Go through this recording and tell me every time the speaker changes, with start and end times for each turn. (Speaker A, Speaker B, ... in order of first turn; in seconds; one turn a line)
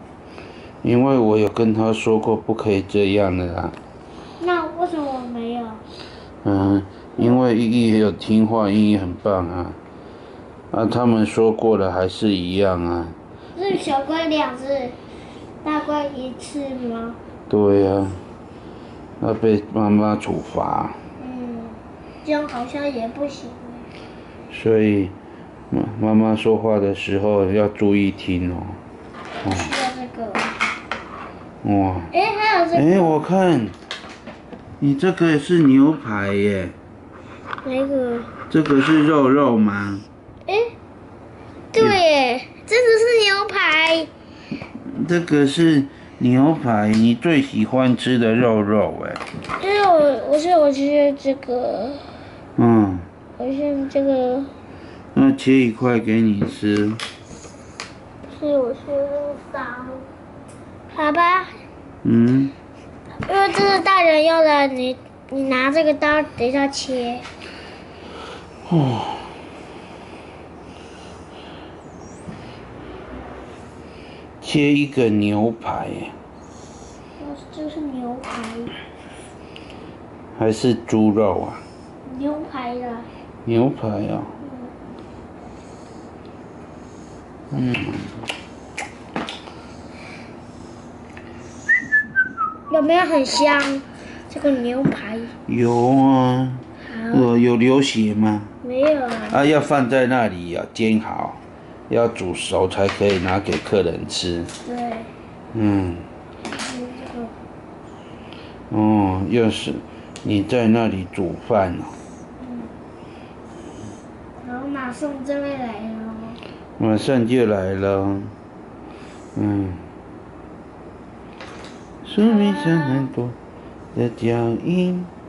Speaker A: 0.8-3.8
Speaker B: 4.4-5.8
Speaker A: 6.4-9.8
Speaker A: 10.7-13.2
Speaker B: 13.5-15.0
Speaker B: 15.6-17.2
Speaker A: 17.5-18.2
Speaker A: 19.2-21.0
Speaker B: 21.2-23.9
Speaker A: 24.5-25.1
Speaker A: 25.7-28.8
Speaker B: 29.4-30.5
Speaker A: 29.4-29.7
Speaker A: 31.6-32.1
Speaker B: 32.1-33.2
Speaker A: 32.7-33.8
Speaker A: 34.8-36.7
Speaker B: 37.6-38.3
Speaker A: 38.5-40.0
Speaker B: 40.5-40.7
Speaker B: 41.7-44.1
Speaker A: 44.7-49.2
Speaker B: 49.5-52.2
Speaker A: 52.6-53.1
Speaker B: 53.4-54.5
Speaker A: 55.1-57.0
Speaker B: 58.3-60.1
Speaker B: 60.9-61.6
Speaker A: 62.0-62.5
Speaker B: 63.2-67.2
Speaker A: 68.7-69.3
Speaker A: 74.4-76.2
Speaker B: 77.2-78.8
Speaker A: 80.4-81.6
Speaker B: 82.0-83.1
Speaker A: 83.5-84.4
Speaker B: 84.4-84.7
Speaker A: 87.5-88.2
Speaker B: 92.7-95.3
Speaker A: 95.5-98.5
Speaker B: 96.8-97.3
Speaker B: 98.6-99.4
Speaker A: 99.3-104.5
Speaker B: 104.6-105.1
Speaker A: 105.5-106.1
Speaker B: 106.5-107.4
Speaker A: 108.7-112.0
Speaker B: 112.4-112.7
Speaker B: 114.4-116.4
Speaker A: 116.8-118.3
Speaker A: 119.3-119.9
Speaker A: 122.0-123.4
Speaker B: 122.2-123.1
Speaker A: 123.9-125.1